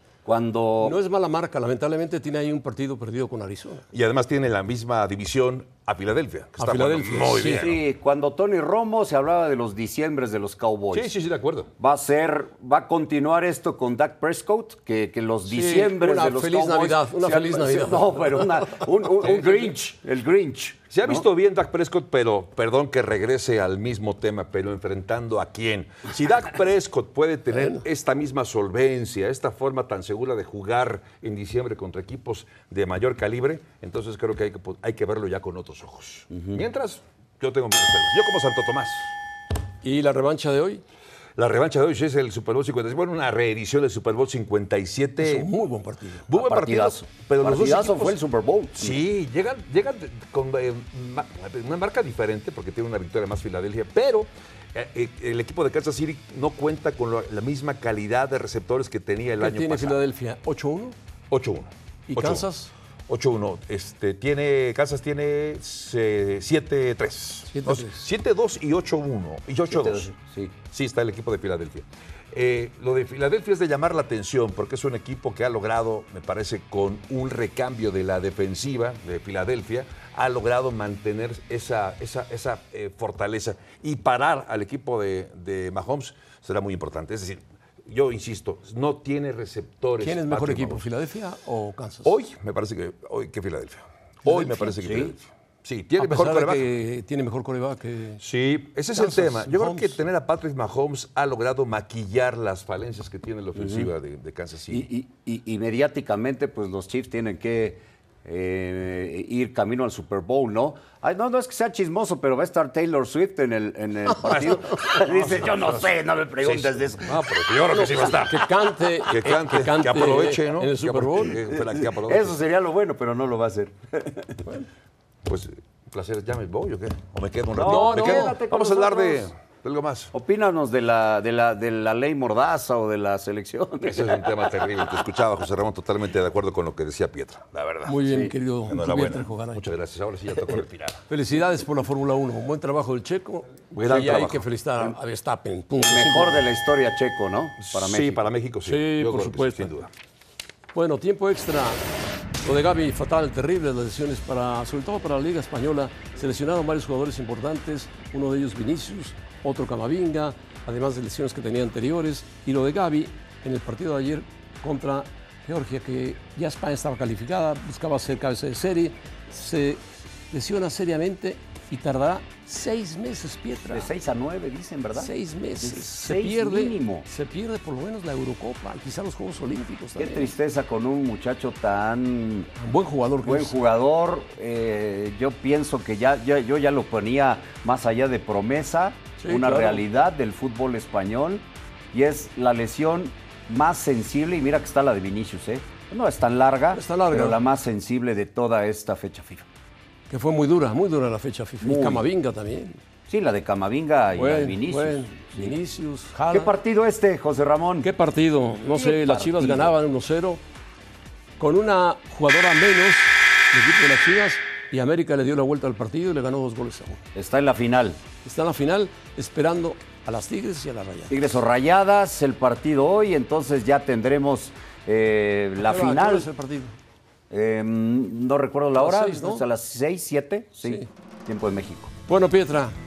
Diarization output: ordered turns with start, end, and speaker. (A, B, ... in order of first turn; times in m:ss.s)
0:00.2-0:01.0 A
0:00.8-0:03.9 B
0:03.9-0:07.8 C
0:06.6-0:07.7 B
0:07.5-0:11.1 A
0:10.9-0:11.7 C
0:11.8-0:21.2 A
0:15.5-0:18.5 B
0:19.2-0:19.7 C
0:20.9-0:39.1 C
0:39.8-0:40.8 B
0:41.4-0:45.5 C
0:45.2-0:46.3 B
0:46.3-0:48.2 C
0:46.3-0:49.0 A
0:48.8-1:00.0 C
0:59.4-1:01.0 B
1:01.3-1:02.4 C
1:02.1-1:02.7 B
1:03.1-1:10.1 C
1:07.5-1:08.0 B
1:09.7-1:10.5 A
1:10.6-1:30.8 C
1:30.0-1:32.1 B
1:32.0-1:36.7 C
1:34.2-1:34.8 B
1:34.8-1:35.1 A
1:36.0-1:38.2 B
1:38.2-1:44.9 C
1:39.0-1:40.0 B
1:43.6-1:43.9 A
1:44.7-1:57.3 A
1:54.2-1:55.8 C
1:56.4-2:02.4 C
1:57.7-2:01.4 B
2:01.5-2:04.4 A
2:05.3-2:10.1 C
2:07.6-2:09.3 A
2:07.6-2:08.4 B
2:10.1-2:14.5 A
2:13.8-2:18.0 C
2:17.8-2:19.6 B
2:18.0-2:18.3 A
2:18.7-2:21.0 C
2:21.1-2:26.4 B
2:23.7-2:24.4 C
2:25.8-2:28.3 A
2:27.6-2:29.9 C
2:28.6-2:29.7 B
2:30.7-2:31.8 B
2:32.4-2:53.9 B
2:53.7-2:57.1 A
2:55.0-3:00.3 B
3:00.0-3:02.5 A
3:02.6-3:03.6 B
3:03.2-3:19.5 A
3:09.2-3:09.8 B
3:16.7-3:17.4 B
3:20.1-3:22.8 B
3:21.6-3:22.1 A
3:23.1-3:25.6 A
3:24.2-3:26.6 B
3:26.3-3:27.9 A
3:27.8-3:30.4 B
3:28.6-3:29.7 A
3:31.4-3:37.0 B
3:37.2-3:38.0 A
3:38.2-3:41.2 B
3:41.1-3:46.3 A
3:45.6-3:46.8 B
3:47.3-3:51.9 A
3:48.8-3:49.4 B
3:52.1-3:52.8 B